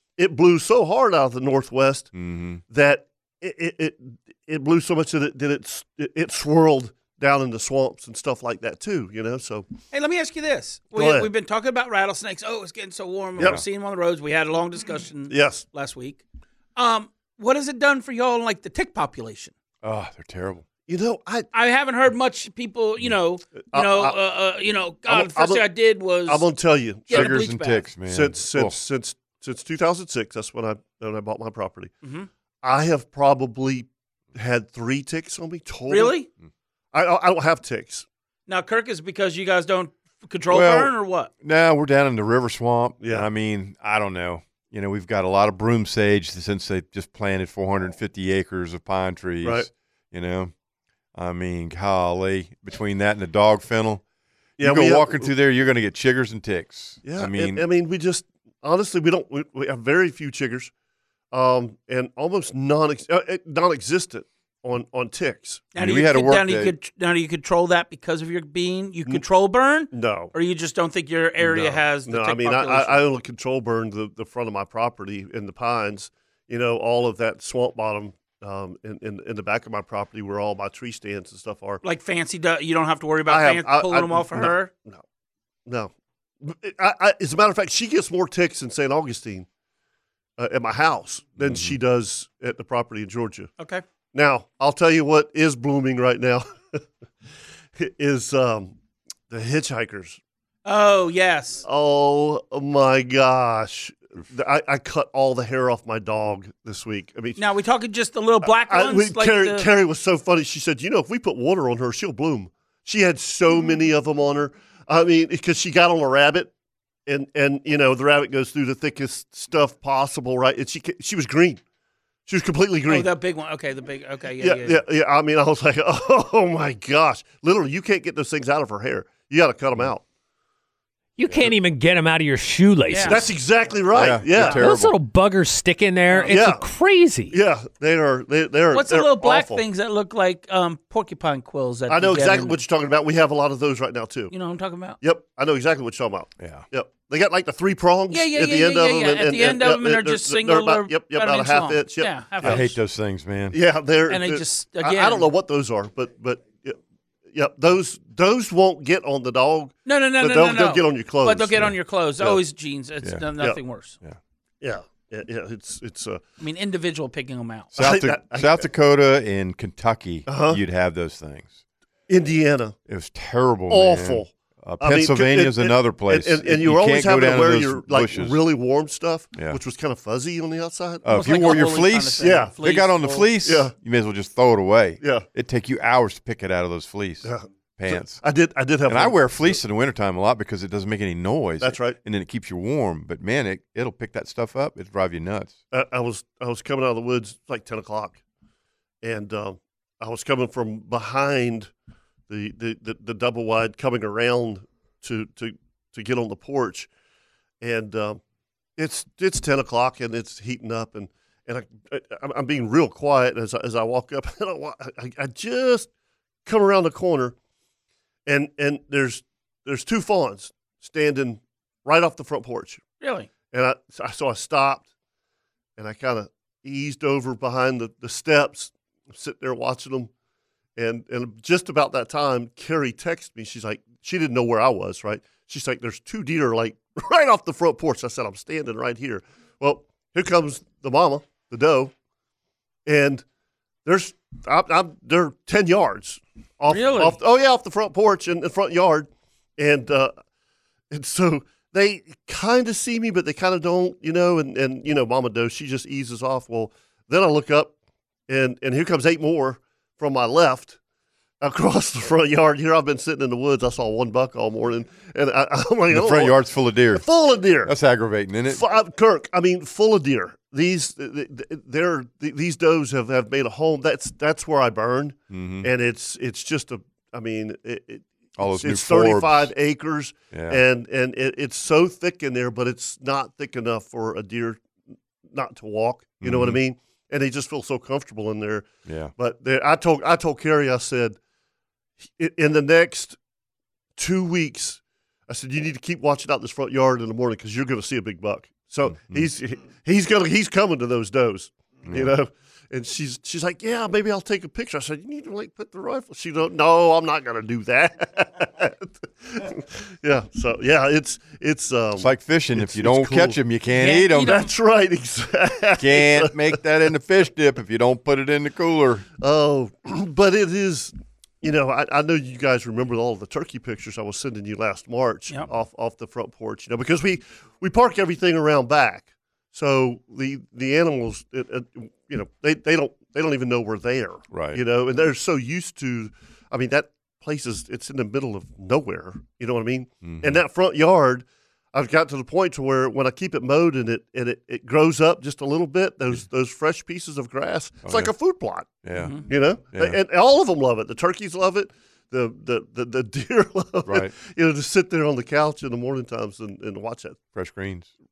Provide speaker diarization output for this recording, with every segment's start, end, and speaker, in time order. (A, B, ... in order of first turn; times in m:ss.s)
0:00.2-0:02.1 A
0:02.1-0:02.6 B
0:02.7-0:09.7 A
0:09.9-0:16.2 C
0:10.9-0:11.3 A
0:13.4-0:13.6 B
0:15.3-0:15.6 A
0:16.8-0:19.5 C
0:19.8-0:20.6 B
0:20.9-0:21.5 A
0:21.5-0:26.5 C
0:23.6-0:24.2 A
0:25.1-0:25.7 A
0:26.2-0:27.4 A
0:27.1-0:27.9 C
0:27.1-0:28.8 B
0:28.1-0:31.9 A
0:32.0-0:32.3 C
0:32.6-0:36.2 A
0:35.9-0:36.3 C
0:36.9-0:38.0 A
0:38.5-0:41.3 C
0:40.5-0:50.5 B
0:43.0-0:43.3 A
0:49.4-0:49.7 A
0:51.1-0:54.0 B
0:54.6-0:55.3 A
0:54.6-0:57.6 B
0:57.0-1:00.7 A
1:01.3-1:05.6 A
1:05.7-1:13.0 C
1:05.8-1:06.7 B
1:09.9-1:10.3 A
1:11.4-1:21.8 A
1:21.8-1:24.7 C
1:23.2-1:25.0 A
1:25.6-1:25.9 A
1:26.4-1:29.5 A
1:30.4-1:33.5 A
1:31.4-1:31.8 B
1:34.1-1:36.8 A
1:37.8-1:38.7 A
1:39.3-1:40.2 A
1:40.6-1:41.6 C
1:41.6-1:47.4 A
1:47.4-1:49.7 C
1:48.4-1:56.5 A
1:57.0-2:01.6 A
2:02.3-2:03.1 A
2:02.9-2:04.8 C
2:04.4-2:10.0 A
2:11.2-2:13.3 D
2:12.9-2:13.2 C
2:13.0-2:14.6 A
2:13.9-2:15.0 B
2:14.5-2:17.4 D
2:16.1-2:16.4 C
2:16.2-2:16.6 A
2:17.3-2:19.6 A
2:18.7-2:22.6 C
2:21.9-2:24.3 A
2:24.3-2:25.0 C
2:25.0-2:32.7 A
2:26.4-2:26.6 B
2:28.1-2:32.7 C
2:32.4-2:33.6 B
2:33.5-2:36.8 A
2:34.1-2:35.3 C
2:37.3-2:41.7 A
2:39.8-2:44.0 C
2:44.6-2:46.2 A
2:46.4-2:47.7 C
2:47.7-2:51.6 B
2:47.8-2:48.7 A
2:50.3-2:50.6 A
2:52.1-2:52.8 A
2:52.9-2:58.4 B
2:53.7-3:01.6 A
3:01.0-3:08.2 B
3:01.1-3:03.3 C
3:02.2-3:02.6 A
3:03.4-3:03.7 A
3:05.0-3:05.2 A
3:07.2-3:09.6 A
3:08.9-3:15.6 B
3:11.6-3:12.0 A
3:15.7-3:18.2 A
3:19.0-3:21.7 A
3:22.3-3:26.9 A
3:27.6-3:28.2 A
3:28.8-3:35.9 A
3:36.4-3:37.3 A
3:38.2-3:42.8 A
3:43.0-3:43.3 C
3:43.5-3:44.8 A
3:45.8-3:50.1 A
3:50.8-4:01.9 A
4:02.8-4:03.2 A
4:03.8-4:10.1 A
4:06.7-4:07.2 C
4:10.9-4:17.7 A
4:18.3-4:20.8 A
4:21.4-4:26.4 A
4:25.9-4:27.0 B
4:26.9-4:27.7 A
4:27.6-4:28.6 B
4:28.5-4:44.6 A
4:35.3-4:35.7 B
4:38.4-4:39.5 B
4:40.3-4:40.6 B
4:45.3-4:51.2 A
4:46.2-4:46.6 B
4:48.8-4:49.1 B
4:52.2-4:53.2 A
4:54.0-5:13.4 A
4:58.8-4:59.3 B
5:01.8-5:02.1 B
5:12.0-5:14.4 B
5:13.7-5:14.5 C
5:14.2-5:16.6 A
5:15.8-5:19.0 B
5:19.2-5:57.2 A
5:34.3-5:34.6 B
5:40.0-5:40.4 B
5:47.8-5:48.1 B
5:48.8-5:50.0 B
5:48.9-5:49.2 C
5:53.8-5:54.1 B
5:57.3-5:57.9 B